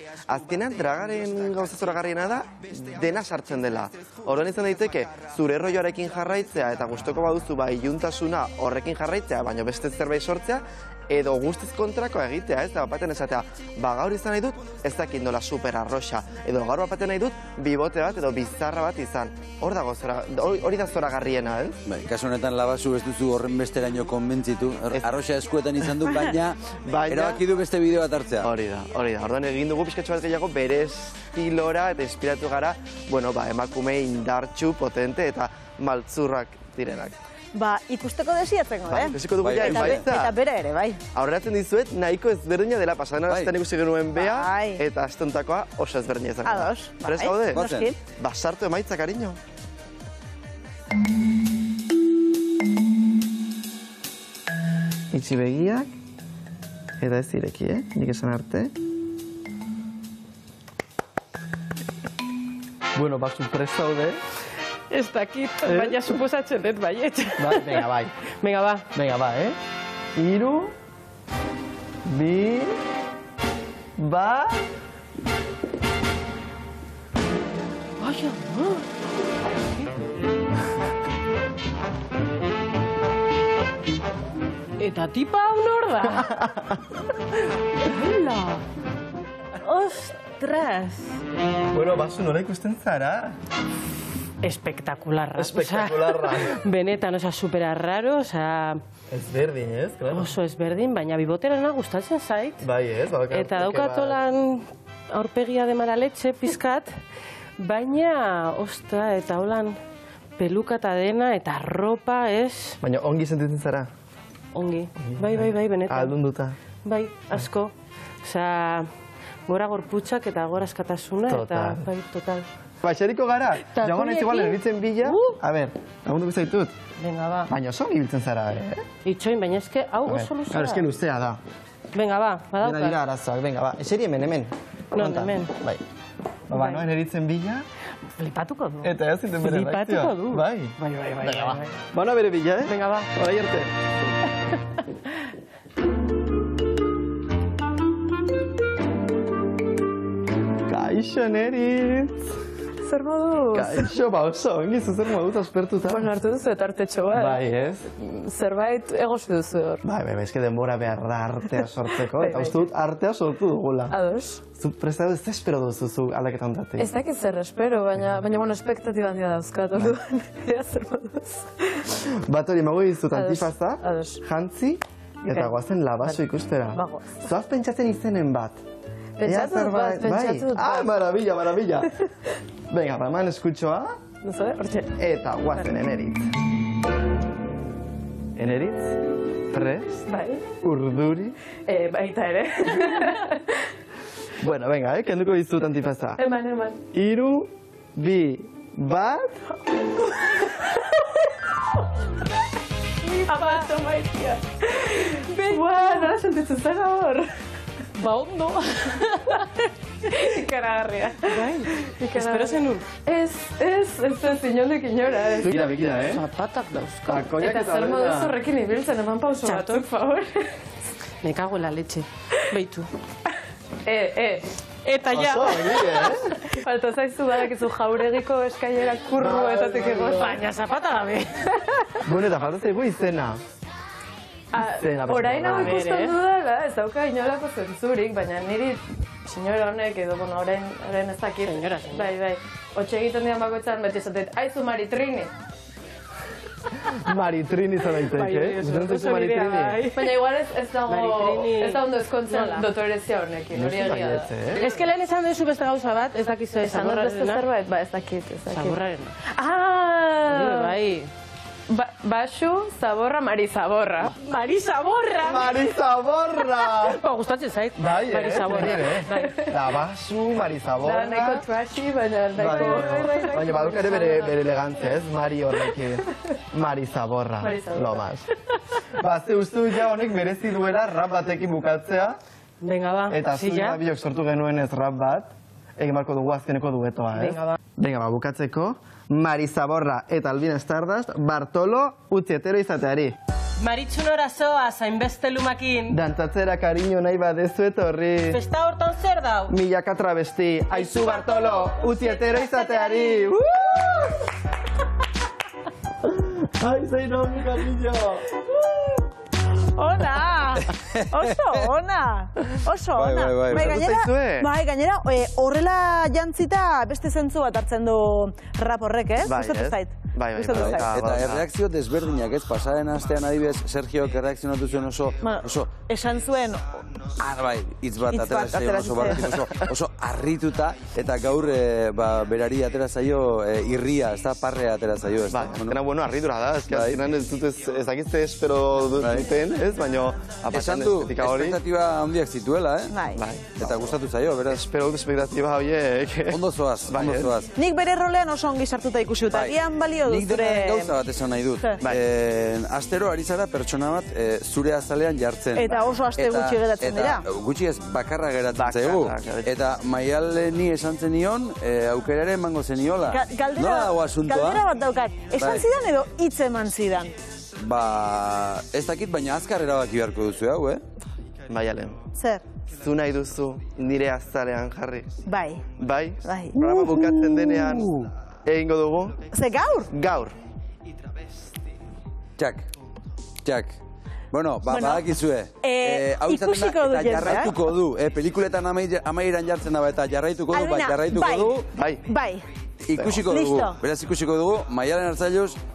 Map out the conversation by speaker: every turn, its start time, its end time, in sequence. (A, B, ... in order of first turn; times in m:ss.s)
0:00.3-0:21.8 A
0:21.9-0:26.6 B
0:26.7-0:27.4 A
0:27.2-0:28.4 B
0:28.4-0:37.2 A
0:37.5-0:41.0 C
0:38.9-0:40.4 A
0:39.6-0:40.0 D
0:41.1-0:49.4 A
0:44.1-0:44.8 C
0:46.4-0:48.0 C
0:55.1-0:55.9 A
0:57.0-0:58.7 A
1:03.0-1:04.2 A
1:04.9-1:08.8 D
1:05.6-1:06.1 A
1:07.4-1:08.1 A
1:08.9-1:09.6 A
1:10.2-1:10.7 A
1:12.1-1:12.8 A
1:14.0-1:14.6 A
1:18.0-1:18.9 D
1:24.8-1:26.4 D
1:26.0-1:26.8 A
1:27.8-1:28.6 D
1:29.6-1:31.2 D
1:31.7-1:33.4 A
1:34.4-1:38.8 D
1:35.4-1:36.6 A
1:39.1-1:40.4 A
1:40.1-1:42.6 D
1:42.6-1:44.2 A
1:43.3-1:46.9 D
1:47.6-1:49.8 D
1:50.4-1:52.8 D
1:52.8-1:53.9 A
1:54.5-1:56.1 D
1:55.0-1:56.6 A
1:56.8-1:58.9 D
1:59.5-2:02.4 D
2:01.2-2:01.9 A
2:02.8-2:06.7 A
2:03.6-2:05.4 D
2:07.0-2:07.5 D
2:07.5-2:08.8 A
2:09.0-2:10.9 D
2:10.0-2:11.4 A
2:11.9-2:13.0 D
2:12.6-2:15.8 A
2:14.9-2:15.5 D
2:16.5-2:17.6 A
2:16.5-2:16.8 D
2:18.2-2:21.8 D
2:18.8-2:23.7 A
2:22.6-2:23.1 D
2:30.7-2:32.3 A
2:32.8-2:33.9 E
2:33.5-2:36.1 A
2:35.9-2:37.4 E
2:37.1-2:37.9 A
2:38.0-2:39.8 E
2:39.8-2:44.0 A
2:42.2-2:42.6 E
2:43.9-2:44.4 E
2:44.6-2:46.9 A
2:46.8-2:52.0 E
2:51.9-2:58.6 A
2:53.1-2:54.2 E
2:55.3-2:57.2 E
2:59.2-3:00.9 E
2:59.2-3:01.9 A
3:02.7-3:03.9 A
3:04.2-3:05.0 E
3:05.0-3:06.3 A
3:08.4-3:09.0 A
3:09.5-3:10.1 A
3:10.1-3:10.4 E
3:10.6-3:11.4 A
3:11.6-3:13.6 E
3:14.4-3:16.2 A
3:16.2-3:16.8 E
3:16.9-3:19.4 A
3:20.0-3:21.2 E
3:23.0-3:27.3 E
3:25.3-3:25.9 D
3:27.9-3:35.6 E
3:31.2-3:32.9 D
3:35.4-3:36.2 A
3:35.6-3:37.2 D
3:37.0-3:38.4 A
3:37.3-3:40.6 E
3:39.4-3:39.8 D
3:41.2-3:42.9 D
3:43.8-3:44.5 E
3:44.8-3:46.1 D
3:45.1-3:46.3 A
3:46.4-3:50.4 E
3:49.2-3:50.3 A
3:50.0-3:51.6 D
3:51.6-3:51.8 E
3:52.0-3:53.4 A
3:54.5-4:05.3 E
3:54.5-3:55.8 A
3:55.4-3:56.1 D
4:01.4-4:02.1 D
4:06.8-4:09.8 A
4:08.2-4:10.1 D
4:08.3-4:14.8 E
4:10.9-4:12.7 D
4:13.5-4:14.6 A
4:14.5-4:17.4 D
4:16.6-4:20.8 E
4:18.5-4:19.2 D
4:20.3-4:21.1 D
4:21.7-4:25.5 E
4:24.2-4:25.1 D
4:25.2-4:27.0 A
4:26.6-4:29.5 D
4:27.8-4:31.4 A
4:28.8-4:29.5 E
4:30.8-4:34.4 E
4:32.4-4:38.3 A
4:32.4-4:33.3 D
4:37.4-4:38.1 E
4:38.9-4:42.2 A
4:42.6-4:43.8 D
4:43.1-4:53.2 A
4:47.2-4:47.6 D
4:53.6-4:56.0 D
4:55.9-4:58.4 A
4:58.3-4:59.5 D
4:59.5-5:04.3 A
5:00.7-5:03.0 D
5:06.0-5:08.3 A
5:09.6-5:21.0 C
5:13.4-5:14.5 A
5:13.6-5:13.8 D
5:19.2-5:21.5 A
5:20.5-5:21.4 D
5:21.2-5:25.6 B
5:25.2-5:26.7 C
5:27.3-5:28.4 B
5:28.0-5:29.6 C
5:29.0-5:29.7 D
5:29.0-5:29.6 A
5:29.6-5:35.7 B
5:35.3-5:41.6 A
5:40.5-5:41.5 D
5:41.6-5:42.9 B
5:42.9-5:43.2 C
5:43.1-5:47.4 A
5:43.6-5:44.5 B
5:46.4-5:47.5 B
5:47.5-5:51.0 C
5:50.1-5:55.6 B
5:51.6-5:51.8 C
5:55.6-5:57.2 C
5:55.7-5:56.8 D
5:56.4-5:58.9 B
5:58.5-5:59.6 A
5:59.5-6:03.2 B
6:03.0-6:07.1 C
6:03.2-6:03.6 D
6:03.7-6:04.5 B
6:07.6-6:10.8 B
6:11.5-6:12.1 A
6:12.1-6:12.4 C
6:12.7-6:15.1 A
6:15.2-6:15.7 C
6:15.7-6:19.3 A
6:16.2-6:17.8 C
6:19.3-6:19.9 C
6:19.9-6:20.3 A
6:22.4-6:22.6 B
6:23.4-6:23.8 B
6:24.3-6:26.4 B
6:24.6-6:25.1 C
6:25.6-6:27.7 C
6:26.7-6:27.5 D
6:27.2-6:30.9 B
6:30.5-6:32.4 C
6:30.6-6:31.5 D
6:31.6-6:32.1 A
6:32.9-6:33.3 A
6:33.1-6:33.8 C
6:33.3-6:33.7 D
6:33.8-6:35.6 B